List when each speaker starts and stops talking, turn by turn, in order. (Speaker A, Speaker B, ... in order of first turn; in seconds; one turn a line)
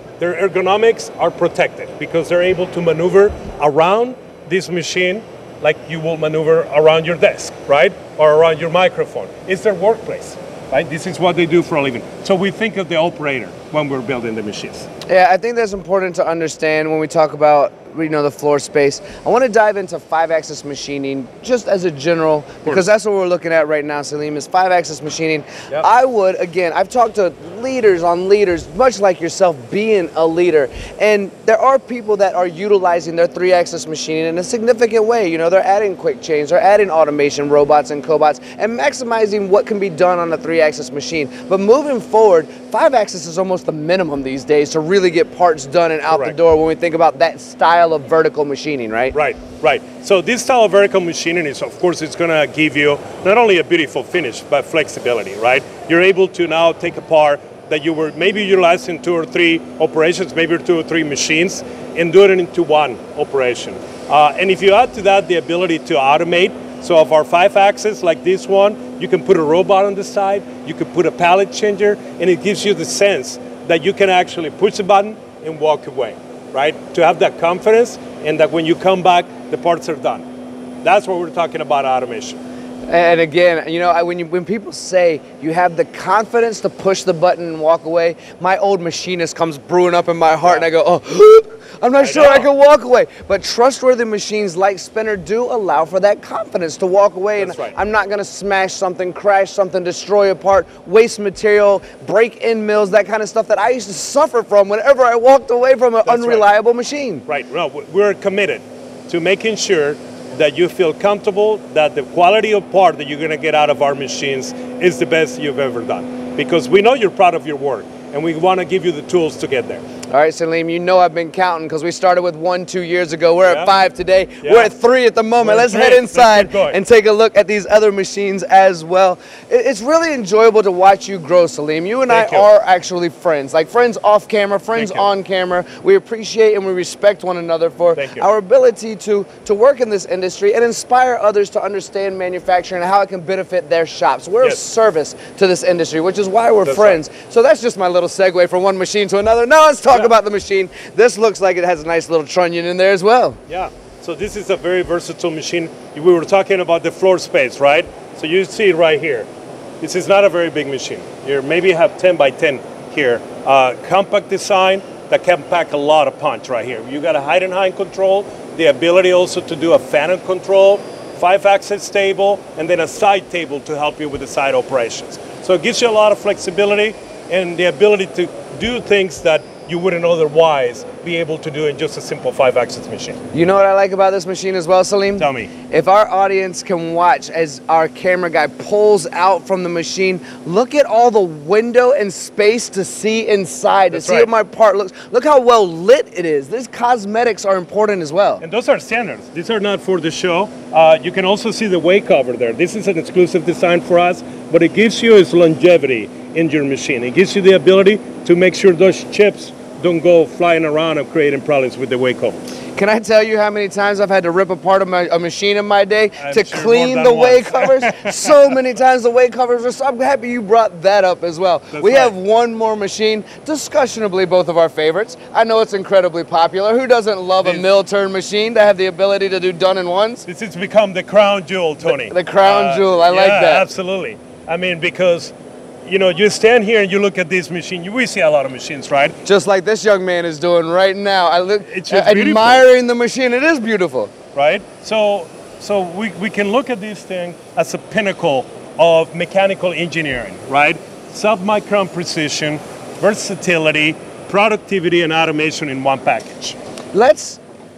Speaker A: 0.2-14.9
Speaker B: 15.1-49.1
Speaker A: 46.1-46.4
Speaker A: 49.1-80.3
Speaker A: 80.8-82.4
Speaker B: 82.9-107.2
Speaker A: 92.0-92.5
Speaker A: 97.4-97.8
Speaker A: 106.0-106.5
Speaker A: 107.3-119.8
Speaker B: 120.1-153.4
Speaker A: 123.4-123.8
Speaker A: 124.4-124.7
Speaker A: 125.4-126.8
Speaker A: 132.1-132.5
Speaker A: 134.8-135.1
Speaker A: 137.9-138.3
Speaker A: 146.7-147.0
Speaker A: 153.5-159.3
Speaker A: 159.8-183.2
Speaker B: 183.3-198.4
Speaker A: 185.2-185.5
Speaker A: 193.9-194.3
Speaker A: 198.4-212.4
Speaker B: 212.8-230.3
Speaker A: 216.2-218.3
Speaker A: 221.7-222.2
Speaker A: 227.4-227.7
Speaker A: 230.3-235.3
Speaker B: 231.8-233.7
Speaker A: 235.8-239.2
Speaker B: 239.2-244.1
Speaker A: 241.7-242.7
Speaker A: 244.3-256.6
Speaker B: 256.9-257.4